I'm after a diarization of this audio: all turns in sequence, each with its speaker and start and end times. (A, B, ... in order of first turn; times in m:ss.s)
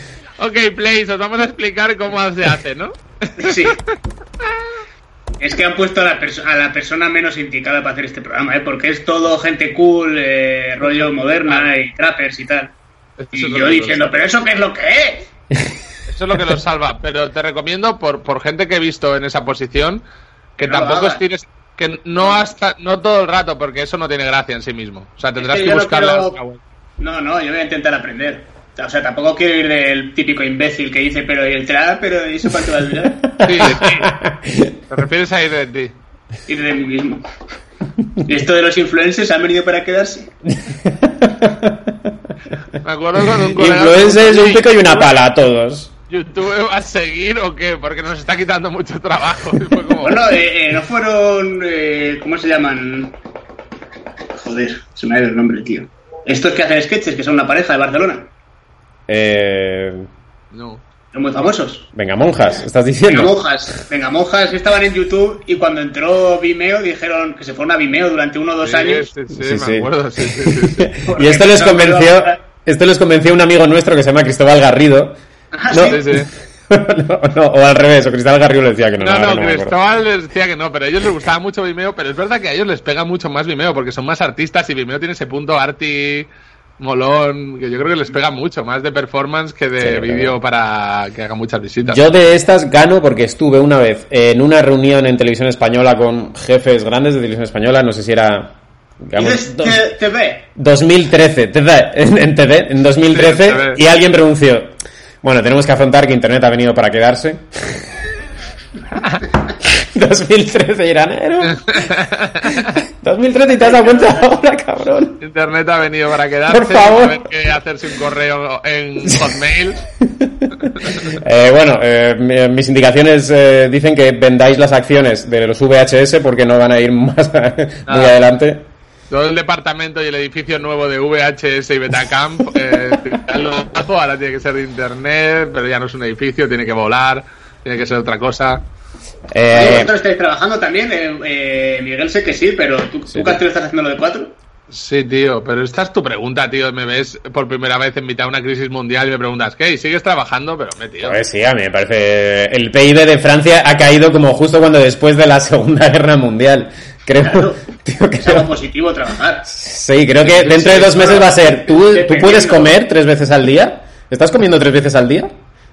0:00.4-0:03.9 A
0:03.4-0:03.8 B
0:05.4-0:12.7 B
0:10.9-0:11.7 A
0:13.2-0:14.2 A
0:13.3-0:15.3 B
0:16.1-0:20.0 A
0:20.6-0:26.6 A
0:20.6-0:21.2 B
0:25.4-0:26.4 B
0:27.0-0:33.2 B
0:33.2-0:34.8 C
0:33.4-0:34.1 A
0:34.9-0:36.0 A
0:36.5-0:37.2 B
0:38.2-0:40.3 B
0:40.5-0:42.1 C
0:42.8-0:45.1 A
0:43.3-0:45.9 C
0:46.1-0:50.3 A
0:50.0-0:53.2 B
0:54.4-0:58.3 B
0:59.1-1:00.1 C
1:00.5-1:00.8 A
1:01.1-1:01.9 B
1:01.9-1:03.4 C
1:03.1-1:09.1 B
1:08.6-1:10.9 A
1:09.3-1:15.2 C
1:11.0-1:12.4 B
1:15.5-1:16.0 B
1:15.7-1:19.8 C
1:15.8-1:16.3 A
1:19.0-1:32.0 A
1:29.8-1:30.4 C
1:31.8-1:39.8 C
1:39.1-1:40.5 B
1:40.5-1:44.7 C
1:43.1-1:43.8 A
1:45.2-1:47.8 C
1:49.6-1:51.9 C
1:51.6-1:52.8 A
1:52.4-1:55.2 C
1:53.6-1:54.3 B
1:55.2-1:59.8 A
1:56.5-1:57.3 C
2:00.0-2:08.6 C
2:00.8-2:01.1 A
2:07.9-2:08.2 A
2:09.1-2:18.6 A
2:19.3-2:19.9 C
2:19.5-2:24.4 B
2:23.1-2:23.4 C
2:24.7-2:31.2 A
2:31.0-2:38.5 C
2:37.2-2:37.6 B
2:38.2-2:39.5 B
2:39.4-2:45.3 C
2:40.2-2:41.2 A
2:40.7-2:42.7 B